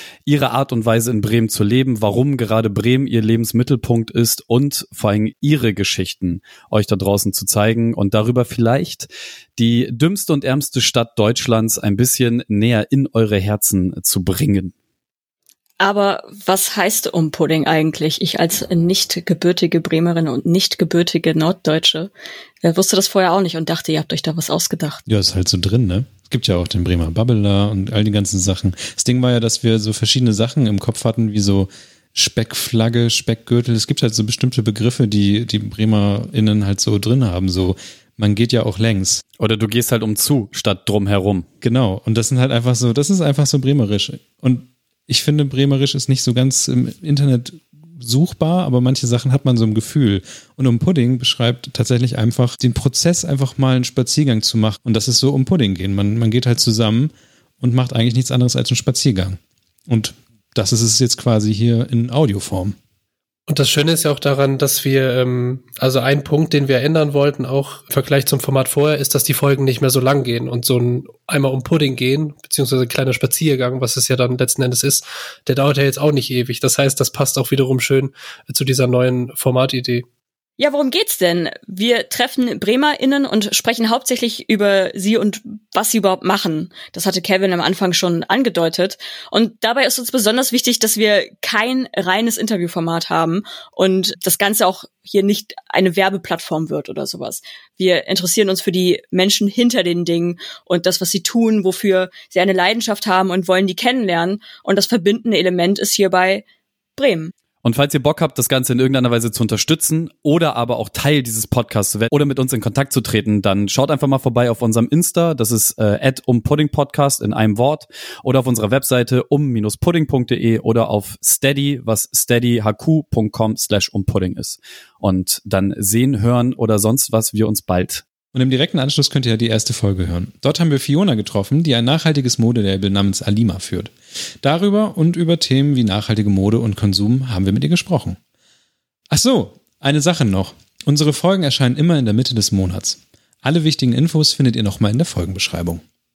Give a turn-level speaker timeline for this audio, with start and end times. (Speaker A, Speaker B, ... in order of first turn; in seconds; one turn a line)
Speaker A: 0.3-14.7
Speaker B: 15.8-25.0
Speaker C: 25.1-39.2
Speaker A: 39.4-41.5
Speaker C: 41.6-62.8
Speaker D: 63.5-80.1
Speaker B: 80.6-106.5
Speaker B: 107.0-107.3
Speaker A: 107.6-128.1
Speaker C: 128.3-138.2
Speaker C: 139.1-145.8